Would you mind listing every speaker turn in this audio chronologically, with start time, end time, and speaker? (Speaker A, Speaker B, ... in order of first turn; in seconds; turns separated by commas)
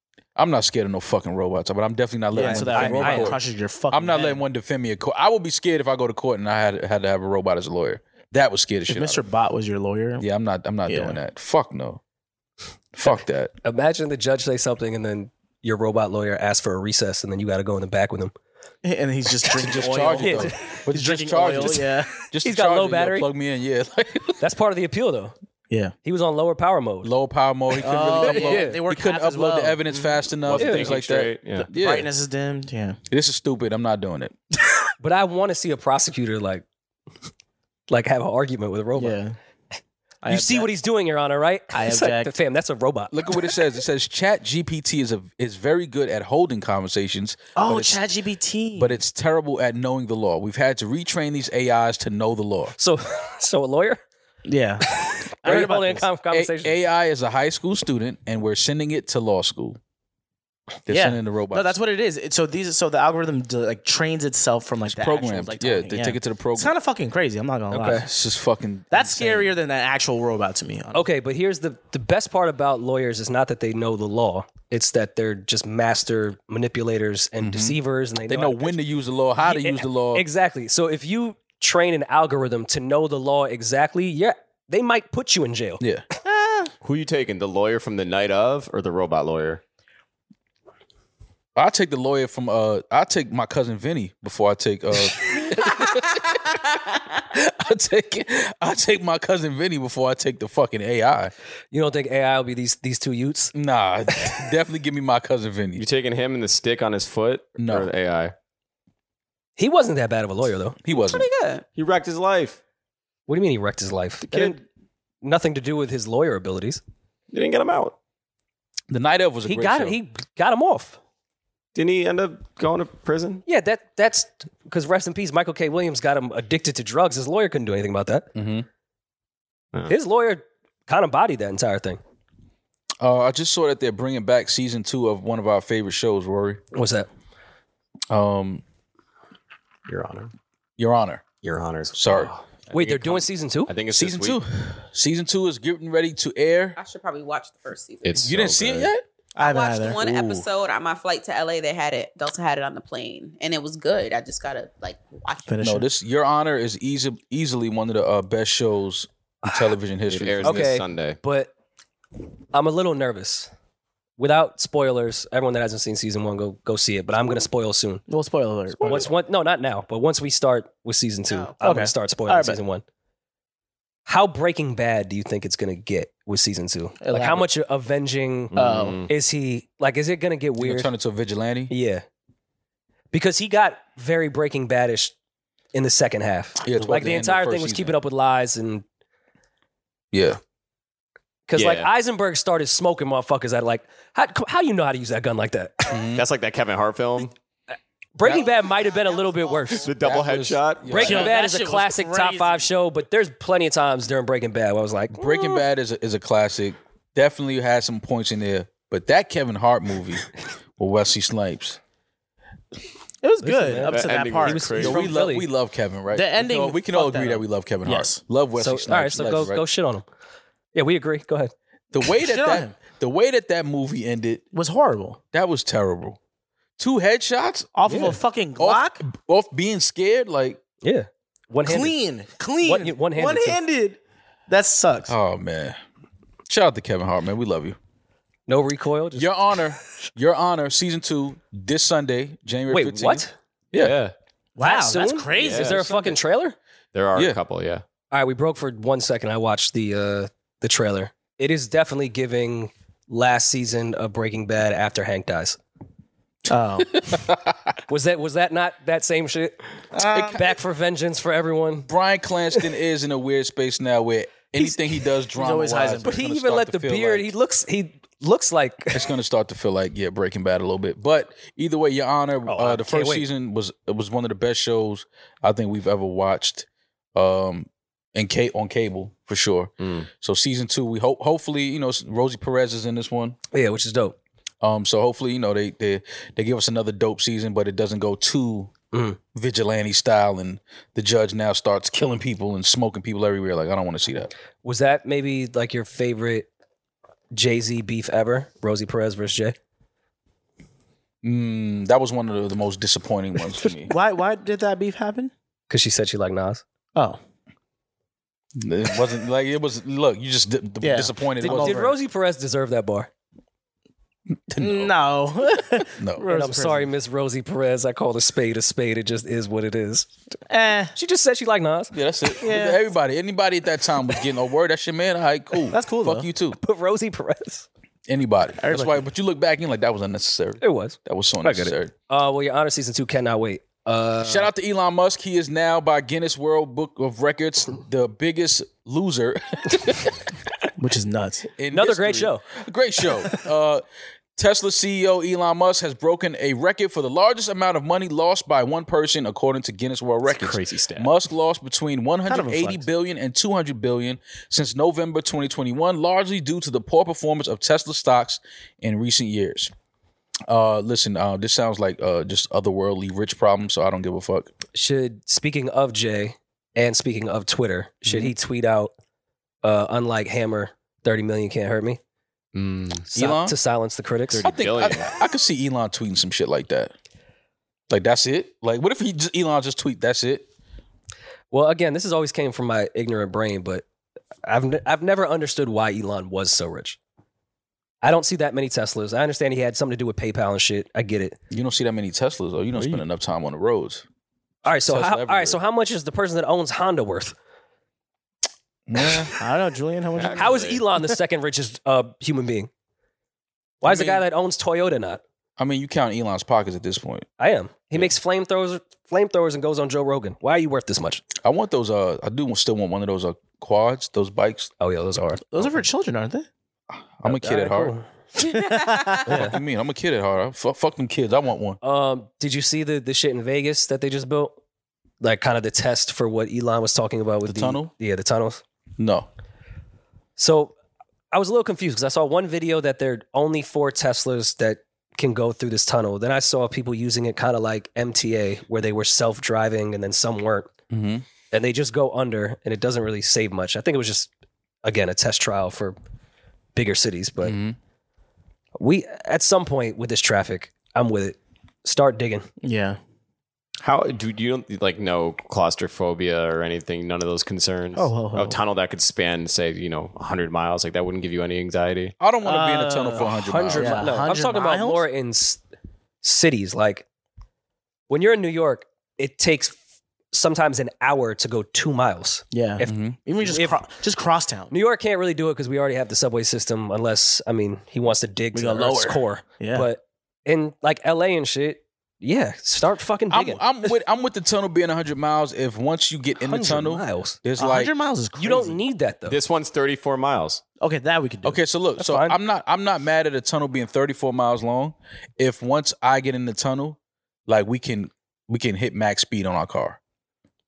Speaker A: 0.3-9.2, Speaker B: 2.3-4.4, Speaker C: 2.4-3.4, Speaker B: 8.9-10.2, Speaker A: 10.2-12.0, Speaker B: 10.9-11.2, Speaker A: 12.9-13.5, Speaker C: 13.6-18.3, Speaker B: 18.8-22.1, Speaker A: 19.5-24.4, Speaker C: 20.1-20.5, Speaker C: 22.4-23.3, Speaker C: 24.4-25.3, Speaker C: 26.0-27.1, Speaker A: 27.0-32.1, Speaker B: 27.8-30.0, Speaker C: 28.2-28.8, Speaker D: 30.4-31.7, Speaker C: 30.6-30.9, Speaker B: 31.6-33.0, Speaker A: 33.1-34.3, Speaker C: 35.0-36.6, Speaker C: 37.9-39.2, Speaker B: 39.0-39.4, Speaker B: 40.2-40.7, Speaker C: 40.3-43.3, Speaker B: 41.7-42.3, Speaker A: 43.1-48.0, Speaker B: 47.5-49.0, Speaker A: 48.8-52.7, Speaker C: 52.8-54.0, Speaker B: 54.4-56.0, Speaker C: 54.9-56.7, Speaker A: 55.4-55.8, Speaker A: 56.3-59.8, Speaker A: 60.9-61.8, Speaker B: 60.9-68.1, Speaker A: 64.9-66.7, Speaker C: 67.7-68.0, Speaker A: 68.0-69.5, Speaker B: 68.9-71.0, Speaker C: 70.9-78.8, Speaker A: 77.4-77.8, Speaker A: 78.3-80.2, Speaker C: 79.4-85.8, Speaker B: 86.2-86.7, Speaker D: 86.8-89.6, Speaker A: 91.5-96.6, Speaker A: 97.3-101.3, Speaker C: 101.7-103.5, Speaker A: 103.5-105.8, Speaker D: 105.8-108.3, Speaker A: 107.6-107.9, Speaker C: 109.6-110.8, Speaker A: 110.8-111.3, Speaker E: 111.0-111.6, Speaker D: 111.7-112.6, Speaker C: 113.3-114.6, Speaker D: 114.3-114.6, Speaker C: 115.2-116.8, Speaker D: 117.3-118.0, Speaker A: 118.9-120.0, Speaker C: 119.5-121.0, Speaker D: 121.7-123.4, Speaker C: 123.5-128.3, Speaker A: 128.3-128.7, Speaker C: 129.9-132.0, Speaker A: 133.0-136.6, Speaker C: 136.7-137.1, Speaker A: 138.1-138.6, Speaker D: 139.9-140.3, Speaker A: 140.8-141.2, Speaker D: 141.4-144.4, Speaker A: 141.9-142.3, Speaker C: 142.7-143.7, Speaker A: 143.9-146.8, Speaker E: 146.8-148.3, Speaker D: 148.0-148.9, Speaker A: 148.2-149.0, Speaker B: 149.3-150.0, Speaker E: 149.4-155.5, Speaker A: 150.0-150.4, Speaker B: 155.5-155.9, Speaker A: 155.6-160.7, Speaker D: 160.1-161.2, Speaker C: 160.4-161.5, Speaker C: 162.5-163.5, Speaker C: 164.2-168.0, Speaker B: 168.1-169.0, Speaker C: 168.8-172.8, Speaker D: 168.8-169.1, Speaker B: 171.6-172.6, Speaker C: 174.1-178.5, Speaker B: 177.0-177.5, Speaker D: 178.5-179.1, Speaker B: 178.6-179.0, Speaker C: 179.1-180.9, Speaker A: 180.6-181.7, Speaker C: 181.7-182.0, Speaker C: 183.1-185.1, Speaker C: 185.7-188.8, Speaker A: 186.6-187.9, Speaker A: 190.1-190.4, Speaker C: 191.5-195.9, Speaker D: 191.5-191.9, Speaker A: 195.9-196.2, Speaker D: 196.1-197.3, Speaker C: 198.2-199.9, Speaker A: 198.2-198.5, Speaker D: 199.8-201.2, Speaker A: 200.0-201.3, Speaker C: 200.9-205.5, Speaker B: 201.0-202.7, Speaker A: 205.1-211.8, Speaker B: 213.2-215.0, Speaker C: 213.4-215.5, Speaker D: 213.9-215.1, Speaker A: 214.8-219.6, Speaker B: 216.1-218.2, Speaker C: 218.6-220.1, Speaker C: 220.7-221.5, Speaker A: 221.9-224.4, Speaker B: 222.2-222.8, Speaker B: 224.5-225.2, Speaker A: 225.3-226.2, Speaker A: 226.8-227.7, Speaker B: 227.7-229.0, Speaker C: 227.9-228.2, Speaker A: 228.6-230.6, Speaker C: 230.8-231.9, Speaker B: 231.6-235.1, Speaker C: 232.6-233.6, Speaker A: 235.1-235.8, Speaker A: 236.5-237.8, Speaker C: 238.5-239.3, Speaker A: 239.2-243.9, Speaker C: 242.7-243.3, Speaker D: 243.8-244.1, Speaker B: 244.6-245.9, Speaker C: 244.6-246.6, Speaker D: 245.3-246.2, Speaker D: 246.9-247.8, Speaker C: 248.1-255.6, Speaker B: 256.5-257.1, Speaker A: 257.0-257.3, Speaker C: 257.9-259.6, Speaker B: 259.9-260.4, Speaker A: 260.1-260.6, Speaker C: 260.3-261.9, Speaker A: 261.9-267.3, Speaker B: 265.3-266.2, Speaker C: 266.0-269.0, Speaker A: 268.9-283.4, Speaker C: 272.4-273.3, Speaker D: 279.8-280.1, Speaker C: 283.5-284.1, Speaker A: 284.6-288.7, Speaker C: 288.9-289.2, Speaker A: 289.3-294.3, Speaker C: 294.6-296.5, Speaker C: 297.3-299.6, Speaker A: 301.2-303.9, Speaker B: 303.9-305.3, Speaker C: 305.7-306.6, Speaker A: 308.6-311.9, Speaker B: 310.8-311.9, Speaker C: 311.4-313.1, Speaker A: 314.5-314.9, Speaker B: 314.6-316.9, Speaker A: 315.9-316.2, Speaker C: 316.3-320.1, Speaker B: 320.5-320.9, Speaker C: 320.9-321.9, Speaker A: 321.9-326.6, Speaker B: 322.4-322.8, Speaker B: 325.7-326.3, Speaker C: 326.6-327.6, Speaker A: 328.1-331.9, Speaker B: 328.6-329.1, Speaker C: 330.6-334.5, Speaker A: 334.2-340.1, Speaker B: 340.8-341.5, Speaker A: 341.6-343.8, Speaker C: 341.7-342.4, Speaker A: 344.4-359.7, Speaker D: 350.2-351.1, Speaker B: 352.2-352.9, Speaker A: 360.5-364.5, Speaker C: 364.7-368.9, Speaker C: 369.6-372.0, Speaker D: 372.5-373.1, Speaker A: 373.1-373.6, Speaker C: 373.1-374.4, Speaker D: 374.3-375.1, Speaker A: 374.4-376.9, Speaker A: 377.9-380.4, Speaker C: 381.5-383.8, Speaker C: 384.4-387.0, Speaker C: 388.0-391.4, Speaker A: 391.5-394.0, Speaker C: 394.6-397.3, Speaker A: 394.8-395.6, Speaker A: 398.9-399.3, Speaker B: 399.3-400.6, Speaker D: 400.1-400.8, Speaker C: 400.4-402.7, Speaker A: 403.8-404.2, Speaker C: 403.8-405.2, Speaker A: 405.6-407.3, Speaker C: 407.4-411.2, Speaker A: 411.4-414.7, Speaker C: 414.8-415.4, Speaker B: 415.5-416.5, Speaker A: 417.2-417.9, Speaker C: 417.2-418.0, Speaker B: 418.4-419.3, Speaker E: 418.4-419.3, Speaker C: 419.2-419.6, Speaker A: 419.3-421.8, Speaker C: 421.8-424.6, Speaker C: 425.2-428.6, Speaker A: 427.4-427.9, Speaker A: 429.0-429.3, Speaker C: 430.4-430.7, Speaker C: 431.3-440.7, Speaker A: 440.9-441.2, Speaker C: 441.5-444.3, Speaker C: 444.8-446.0, Speaker C: 446.7-447.6, Speaker A: 447.4-447.8, Speaker C: 448.8-452.5, Speaker B: 452.6-453.0, Speaker D: 453.8-462.1, Speaker B: 457.9-458.6, Speaker A: 462.2-464.1, Speaker B: 462.4-465.0, Speaker C: 463.2-465.6, Speaker C: 466.2-467.0, Speaker C: 468.1-469.7, Speaker C: 470.3-473.8, Speaker B: 472.5-474.7, Speaker A: 472.8-473.2, Speaker C: 474.7-483.6, Speaker B: 478.5-479.9, Speaker A: 483.3-487.9, Speaker C: 486.4-487.4, Speaker B: 487.6-488.8, Speaker C: 488.4-489.4, Speaker D: 489.3-490.6, Speaker B: 490.8-491.6, Speaker A: 491.4-500.0, Speaker C: 492.0-492.4